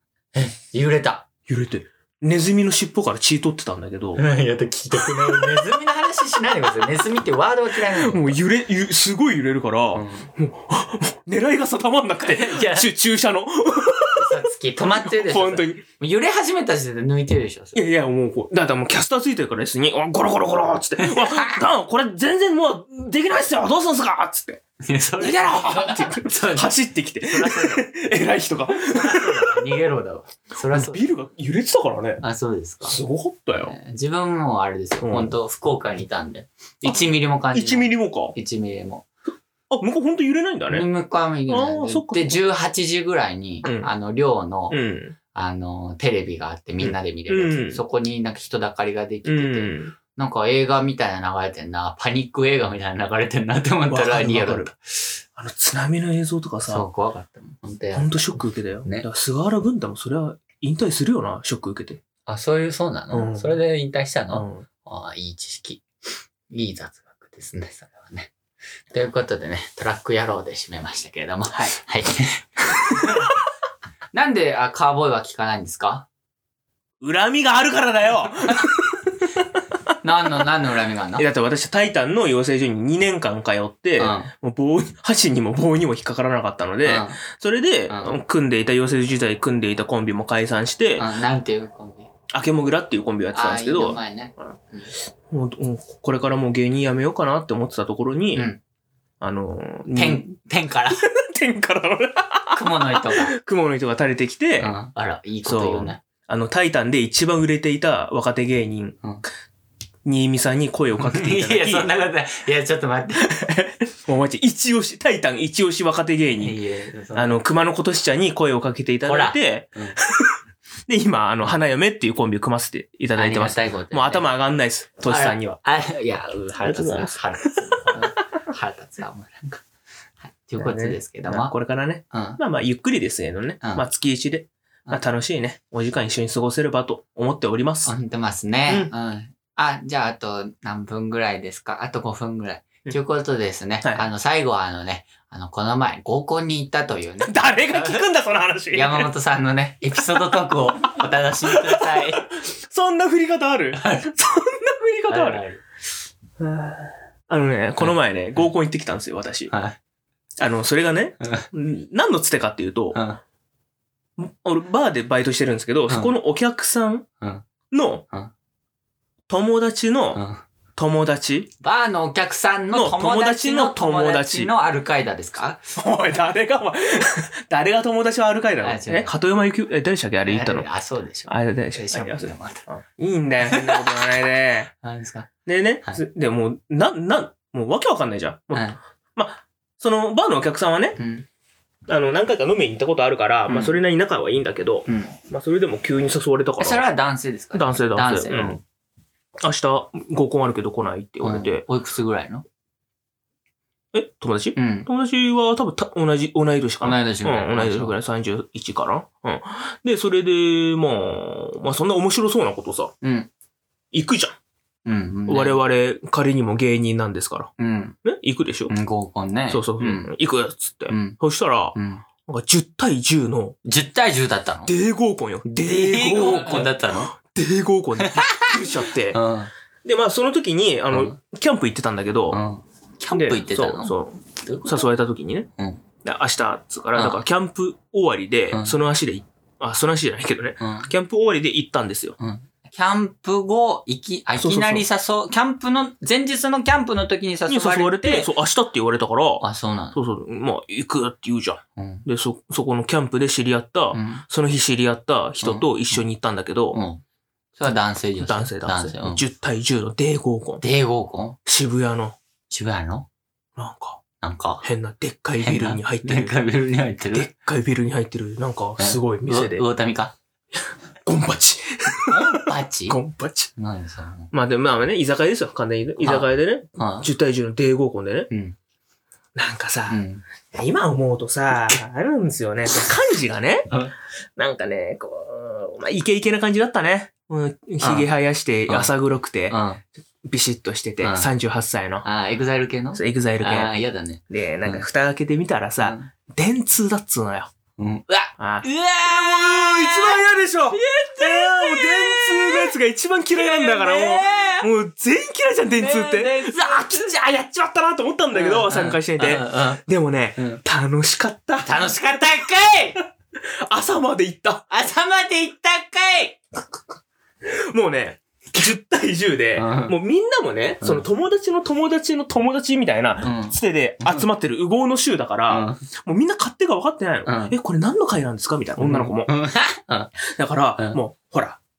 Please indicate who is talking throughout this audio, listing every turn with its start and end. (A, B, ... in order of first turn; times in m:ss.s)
0:00.3-0:01.3 A
0:01.5-0:04.2 B
0:04.2-0:08.4 A
0:07.9-0:14.2 B
0:09.9-0:10.3 A
0:12.2-0:12.9 A
0:14.1-0:17.8 A
0:14.8-0:15.8 B
0:17.7-0:24.6 B
0:21.0-0:21.6 A
0:24.8-0:27.9 A
0:25.2-0:29.6 B
0:28.7-0:31.1 A
0:30.7-0:32.2 B
0:32.2-0:33.0 A
0:32.9-0:33.8 B
0:33.5-0:39.0 A
0:35.0-0:35.3 B
0:37.5-0:38.4 B
0:39.7-0:40.9 B
0:40.7-0:44.8 A
0:41.5-0:42.4 B
0:43.6-0:43.9 B
0:44.7-0:45.2 B
0:45.3-0:55.2 A
0:46.8-0:47.8 B
0:49.2-0:49.9 B
0:53.9-0:54.7 B
0:55.4-0:56.8 B
0:56.6-0:59.1 A
0:58.0-1:02.0 B
1:02.2-1:05.8 A
1:03.1-1:03.6 B
1:04.3-1:04.6 B
1:06.5-1:08.3 A
1:08.9-1:13.3 A
1:11.5-1:11.8 B
1:14.1-1:16.1 A
1:17.0-1:19.3 B
1:20.0-1:21.3 A
1:21.2-1:31.1 B
1:24.0-1:24.3 A
1:26.8-1:27.2 A
1:27.9-1:28.2 A
1:31.0-1:32.1 A
1:32.3-1:34.5 B
1:33.3-1:34.9 A
1:35.3-1:38.5 B
1:38.3-1:38.6 A
1:39.2-1:40.3 B
1:39.9-1:41.0 A
1:41.0-1:44.7 B
1:42.5-1:43.4 A
1:44.6-1:46.0 A
1:45.4-1:49.0 B
1:50.0-1:51.9 B
1:51.0-1:53.3 A
1:53.2-1:56.6 B
1:56.4-1:57.4 A
1:57.1-2:00.3 B
1:59.0-2:00.0 A
2:00.9-2:05.6 B
2:03.1-2:04.3 A
2:05.0-2:09.6 A
2:06.6-2:07.5 B
2:10.2-2:11.5 A
2:10.6-2:17.9 B
2:12.1-2:12.4 A
2:17.8-2:28.0 A
2:27.2-2:29.1 B
2:28.7-2:32.2 A
2:31.5-2:35.4 B
2:33.8-2:34.1 A
2:35.1-2:35.6 A
2:36.4-2:39.5 B
2:39.5-2:39.8 A
2:40.4-2:43.0 B
2:41.2-2:41.4 A
2:42.9-2:43.2 A
2:44.2-2:47.1 B
2:47.7-2:48.1 B
2:49.3-2:50.2 B
2:50.1-2:50.4 A
2:50.8-2:51.5 B
2:51.6-2:55.6 A
2:52.7-2:54.5 B
2:55.8-3:00.6 B
2:58.6-2:59.1 A
3:00.2-3:02.6 A
3:01.3-3:04.7 B
3:03.5-3:04.0 A
3:04.8-3:05.3 A
3:05.4-3:11.0 B
3:08.5-3:08.8 A
3:11.0-3:11.3 A
3:11.9-3:16.8 B
3:13.5-3:13.8 A
3:14.9-3:15.1 A
3:16.6-3:18.6 A
3:17.5-3:18.6 B
3:19.4-3:21.6 B
3:21.2-3:22.4 A
3:23.9-3:32.9 B
3:24.6-3:24.9 A
3:26.8-3:27.9 A
3:33.0-3:33.3 A
3:33.9-3:34.4 B
3:34.8-3:35.6 A
3:35.3-3:37.5 B
3:37.6-3:38.0 A
3:38.0-3:38.7 B
3:38.7-3:40.1 A
3:39.5-3:43.6 B
3:40.9-3:41.2 A
3:41.7-3:42.0 A
3:43.6-3:44.7 A
3:44.7-3:49.2 B
3:45.4-3:47.1 A
3:48.0-3:49.5 A
3:49.8-3:52.4 B
3:50.9-3:51.2 A
3:52.3-3:54.9 A
3:53.1-3:55.5 B
3:56.0-4:02.2 B
3:57.0-3:57.2 A
3:58.5-3:58.8 A
4:00.6-4:00.9 A
4:02.2-4:08.3 A
4:04.4-4:04.8 B
4:07.5-4:16.8 B
4:09.4-4:10.0 A
4:11.8-4:12.0 A
4:13.9-4:14.2 A
4:15.4-4:16.0 A
4:16.7-4:17.0 A
4:17.6-4:19.2 A
4:18.2-4:20.6 B
4:20.6-4:21.4 A
4:21.4-4:22.2 B
4:22.5-4:23.1 A
4:23.6-4:24.0 B
4:24.2-4:24.6 A
4:24.6-4:26.4 B
4:25.4-4:27.3 A
4:27.1-4:29.6 B
4:28.8-4:30.2 A
4:31.0-4:33.5 B
4:32.0-4:33.0 A
4:33.6-4:34.3 A
4:34.3-4:38.3 B
4:36.0-4:37.1 A
4:38.3-4:38.6 A
4:39.3-4:43.7 B
4:39.9-4:40.2 A
4:44.4-4:49.6 B
4:47.8-4:48.1 A
4:49.5-4:49.8 A
4:50.2-4:52.0 B
4:51.0-4:51.3 A
4:52.0-4:54.8 A
4:52.9-4:53.7 B
4:54.3-4:57.5 B
4:55.8-4:56.1 A
4:57.8-5:02.7 A
4:58.4-5:11.8 B
5:03.3-5:04.7 A
5:05.8-5:07.1 A
5:08.3-5:09.8 A
5:11.6-5:13.0 A
5:13.4-5:14.6 B
5:14.7-5:16.8 A
5:17.4-5:29.3 B
5:19.6-5:20.0 A
5:23.2-5:24.3 A
5:25.5-5:25.8 A
5:27.2-5:27.6 A
5:28.8-5:30.1 A
5:30.2-5:31.6 B